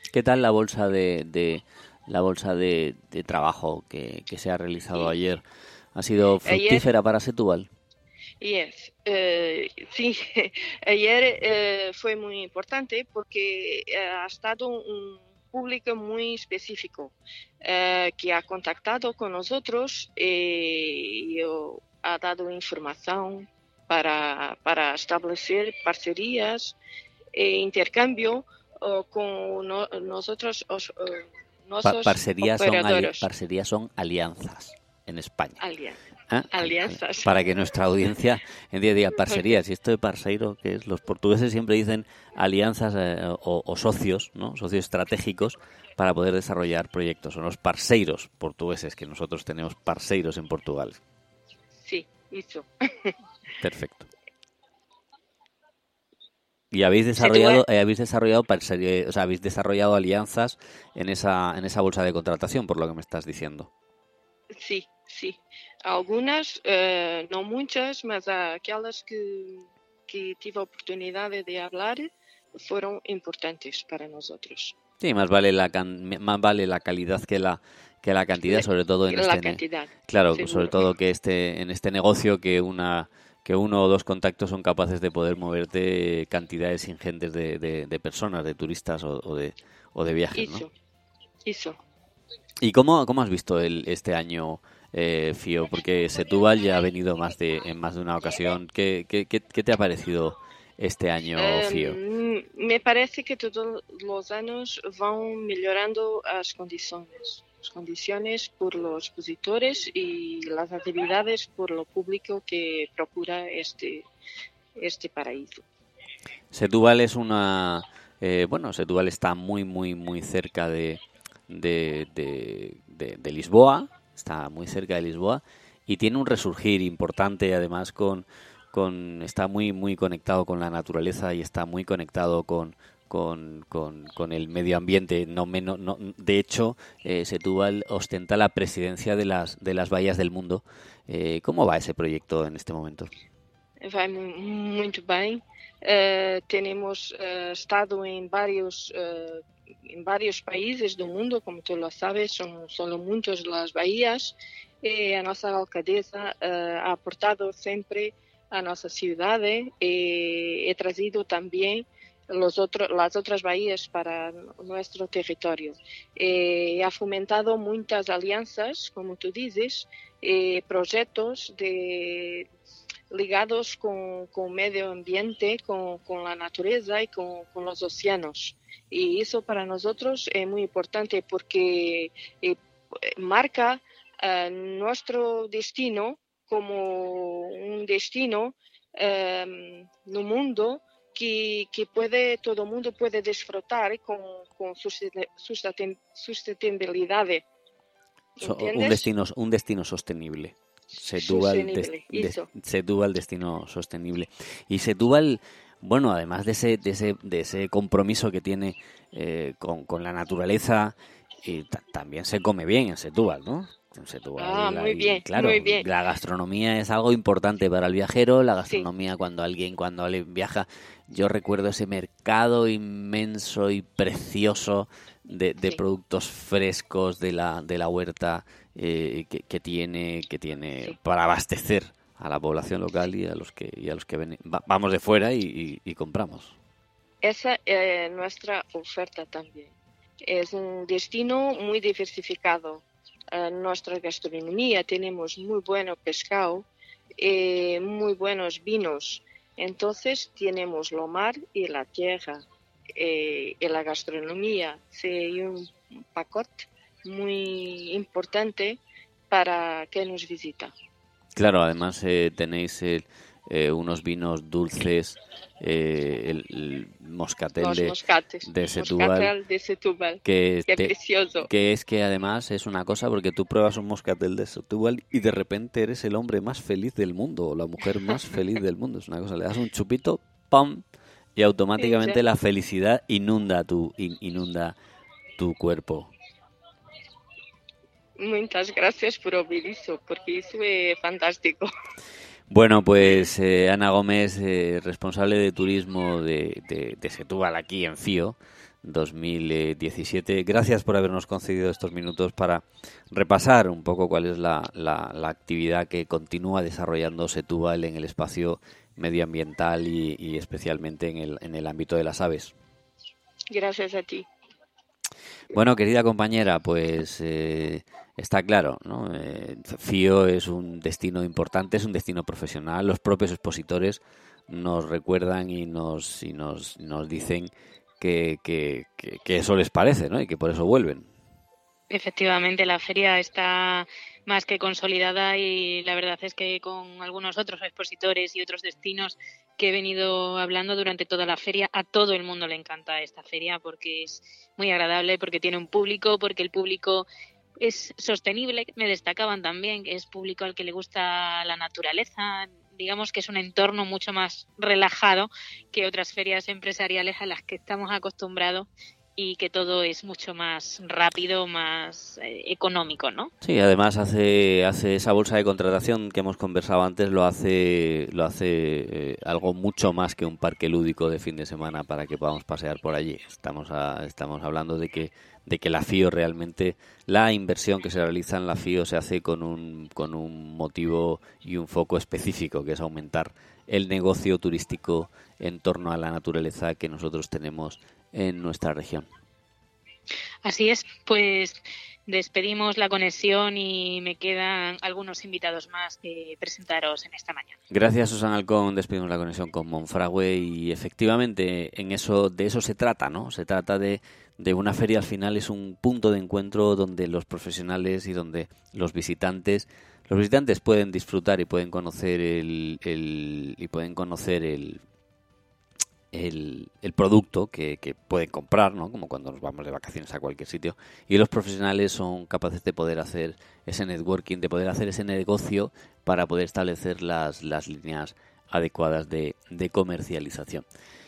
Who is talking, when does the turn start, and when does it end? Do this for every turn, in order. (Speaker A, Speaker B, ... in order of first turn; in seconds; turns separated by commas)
Speaker A: 0.1-5.4, Speaker A: 5.9-7.7, Speaker B: 6.4-6.8, Speaker B: 8.4-26.8, Speaker B: 27.3-33.3, Speaker A: 31.8-35.6, Speaker B: 35.6-36.0, Speaker A: 36.3-51.0, Speaker B: 36.5-37.3, Speaker B: 39.3-39.6, Speaker B: 51.8-53.1, Speaker A: 53.6-54.1, Speaker A: 56.7-63.7, Speaker C: 57.2-57.6, Speaker B: 64.5-74.8, Speaker A: 75.0-90.7, Speaker B: 78.5-80.8, Speaker B: 90.3-90.7, Speaker B: 91.4-91.8, Speaker A: 92.6-102.0, Speaker B: 101.3-114.0, Speaker B: 114.8-115.6, Speaker A: 116.5-143.1, Speaker B: 143.8-172.5, Speaker B: 173.1-197.4, Speaker B: 198.4-199.1, Speaker A: 198.4-236.6, Speaker B: 201.2-202.5, Speaker B: 214.4-215.9, Speaker B: 237.2-246.7, Speaker B: 247.2-252.4, Speaker B: 252.9-260.7, Speaker A: 261.3-269.3, Speaker B: 267.6-271.5, Speaker A: 270.2-270.9, Speaker A: 271.4-280.8, Speaker A: 281.4-284.8, Speaker B: 281.8-282.2, Speaker A: 285.4-286.1, Speaker B: 288.2-291.7, Speaker A: 292.5-312.5, Speaker B: 313.5-314.3, Speaker A: 315.5-331.1, Speaker C: 331.9-347.1, Speaker C: 347.6-363.3, Speaker A: 363.4-389.1, Speaker C: 390.4-397.6, Speaker A: 397.7-414.8, Speaker A: 416.1-430.6